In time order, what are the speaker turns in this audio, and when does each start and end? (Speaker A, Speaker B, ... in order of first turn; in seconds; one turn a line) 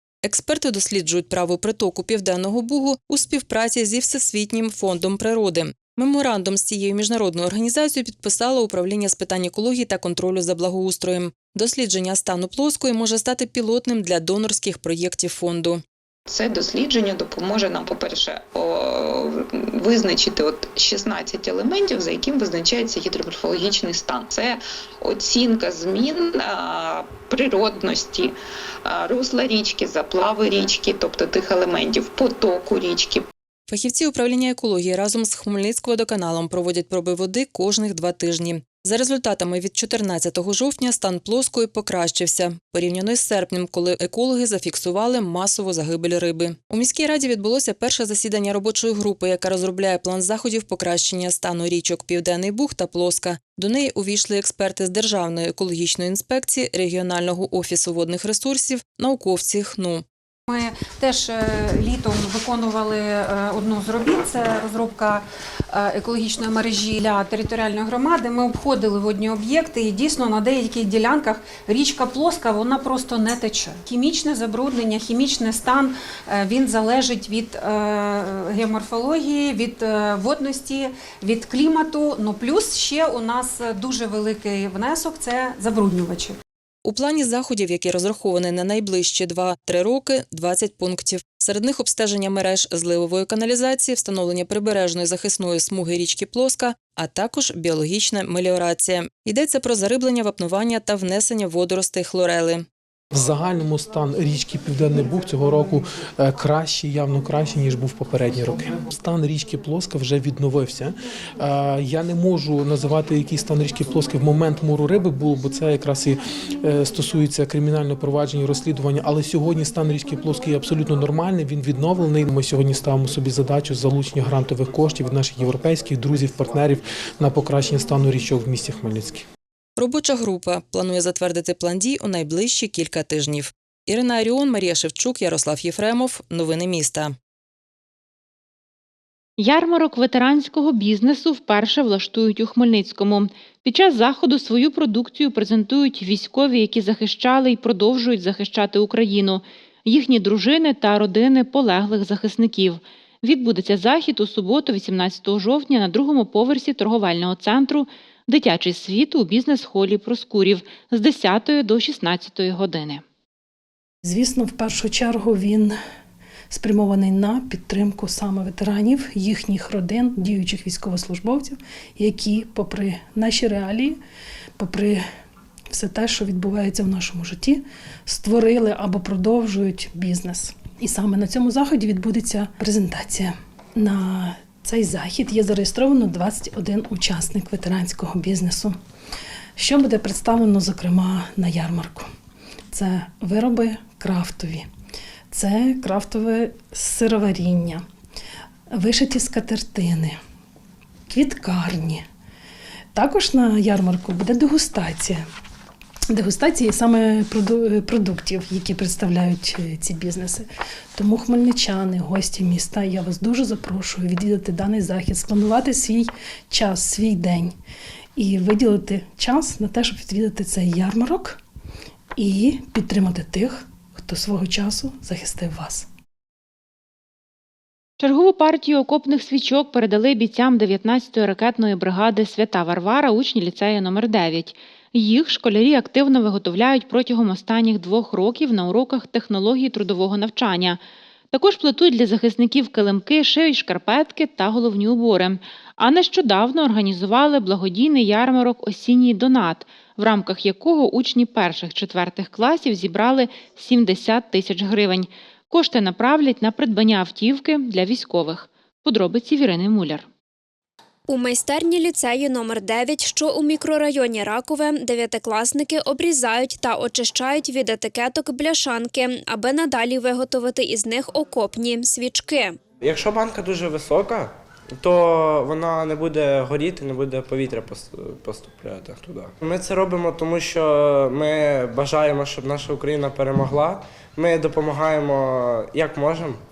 Speaker A: 0.2-15.8
Speaker B: 16.3-33.3
Speaker A: 33.7-60.0
Speaker C: 60.5-86.4
Speaker A: 86.8-102.7
Speaker D: 103.1-129.2
Speaker A: 129.8-137.2
Speaker E: 139.4-163.0
Speaker F: 164.0-165.8
Speaker F: 166.5-174.0
Speaker F: 174.6-175.0
Speaker F: 175.7-188.8
Speaker F: 189.6-192.1
Speaker F: 192.7-194.7
Speaker F: 195.3-197.8
Speaker F: 198.7-200.2
Speaker F: 201.1-202.0
Speaker F: 202.9-205.2
Speaker F: 206.1-217.5
Speaker F: 218.2-221.4
Speaker F: 222.2-225.9
Speaker E: 228.0-240.8
Speaker E: 241.3-260.1
Speaker G: 261.1-272.6
Speaker H: 272.8-274.3
Speaker H: 274.8-286.4